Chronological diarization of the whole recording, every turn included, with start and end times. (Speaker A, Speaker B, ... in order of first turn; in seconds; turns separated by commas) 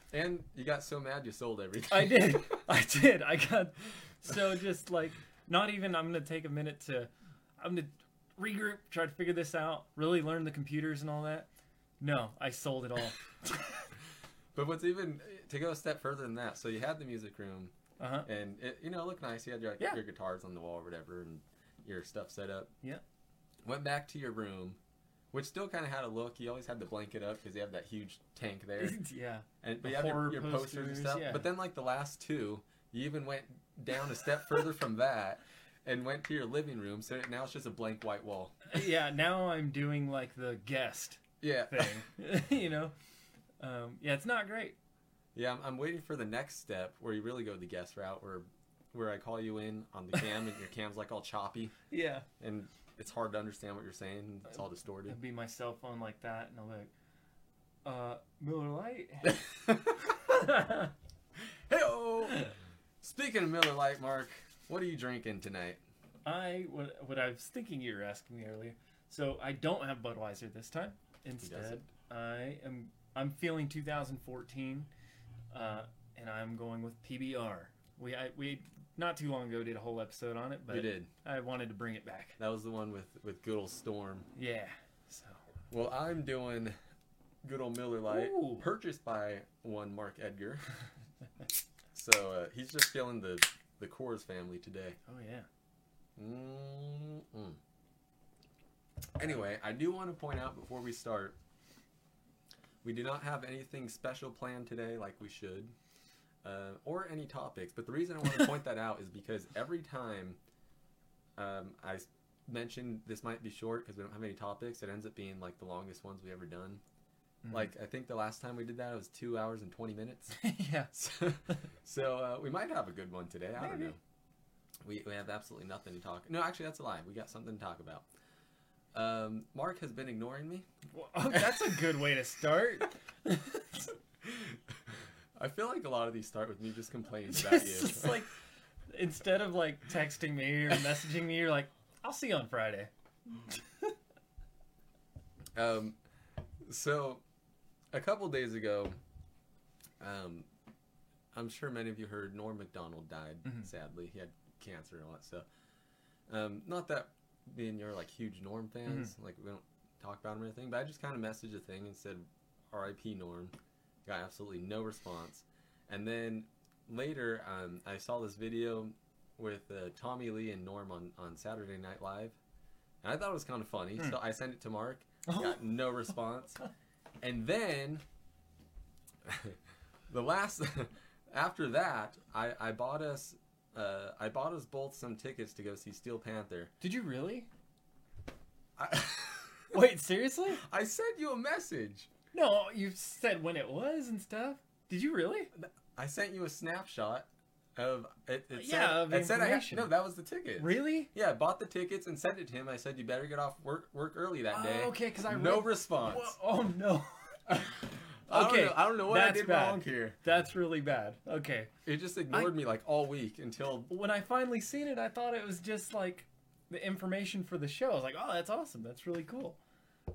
Speaker A: 0.1-2.6, Speaker B: 1.9-11.5, Speaker B: 12.0-13.9, Speaker A: 14.5-17.7, Speaker B: 18.0-18.3, Speaker A: 18.2-22.7, Speaker A: 23.6-24.8, Speaker A: 25.3-29.0, Speaker B: 28.8-31.5, Speaker A: 29.6-38.6, Speaker B: 38.7-42.9, Speaker A: 41.4-42.1, Speaker B: 43.6-44.8, Speaker A: 45.4-51.7, Speaker B: 51.9-52.3, Speaker A: 52.4-55.2, Speaker B: 55.1-56.9, Speaker B: 57.9-59.5, Speaker A: 59.3-60.1, Speaker B: 60.2-60.9, Speaker A: 61.4-65.8, Speaker B: 66.2-74.9, Speaker A: 71.4-71.8, Speaker B: 75.5-82.4, Speaker A: 80.7-81.1, Speaker A: 82.4-84.3, Speaker B: 84.3-85.4, Speaker A: 85.7-86.8, Speaker A: 87.4-90.7, Speaker B: 88.1-88.7, Speaker A: 91.9-95.0, Speaker B: 95.1-95.5, Speaker A: 96.2-97.6, Speaker A: 99.2-101.4, Speaker A: 102.8-105.7, Speaker A: 106.4-110.4, Speaker A: 111.4-116.8, Speaker B: 117.4-117.7, Speaker A: 117.5-120.4, Speaker B: 120.3-120.9, Speaker A: 120.9-124.0, Speaker B: 123.6-123.9, Speaker A: 124.8-128.1, Speaker A: 128.9-130.7, Speaker B: 130.9-133.9, Speaker A: 131.3-131.8, Speaker A: 134.2-134.6, Speaker A: 135.4-138.2, Speaker B: 137.3-138.4, Speaker B: 138.9-142.9, Speaker B: 143.5-143.9, Speaker A: 145.6-146.0, Speaker A: 146.6-147.2, Speaker A: 147.9-149.0, Speaker A: 150.0-150.5, Speaker A: 151.3-155.5, Speaker A: 156.3-163.5, Speaker B: 158.9-159.1, Speaker A: 164.1-172.4, Speaker A: 173.0-176.6, Speaker B: 175.3-175.6, Speaker A: 177.2-178.0, Speaker A: 179.2-179.6, Speaker A: 180.1-186.7, Speaker B: 186.8-187.5, Speaker A: 188.8-189.8, Speaker B: 189.7-190.6, Speaker A: 190.6-192.1, Speaker B: 192.3-195.5, Speaker A: 195.6-206.3, Speaker B: 198.5-199.9, Speaker B: 200.6-201.1, Speaker B: 204.5-207.7, Speaker A: 207.5-210.2, Speaker B: 208.3-211.7, Speaker A: 211.8-213.9, Speaker B: 213.9-219.6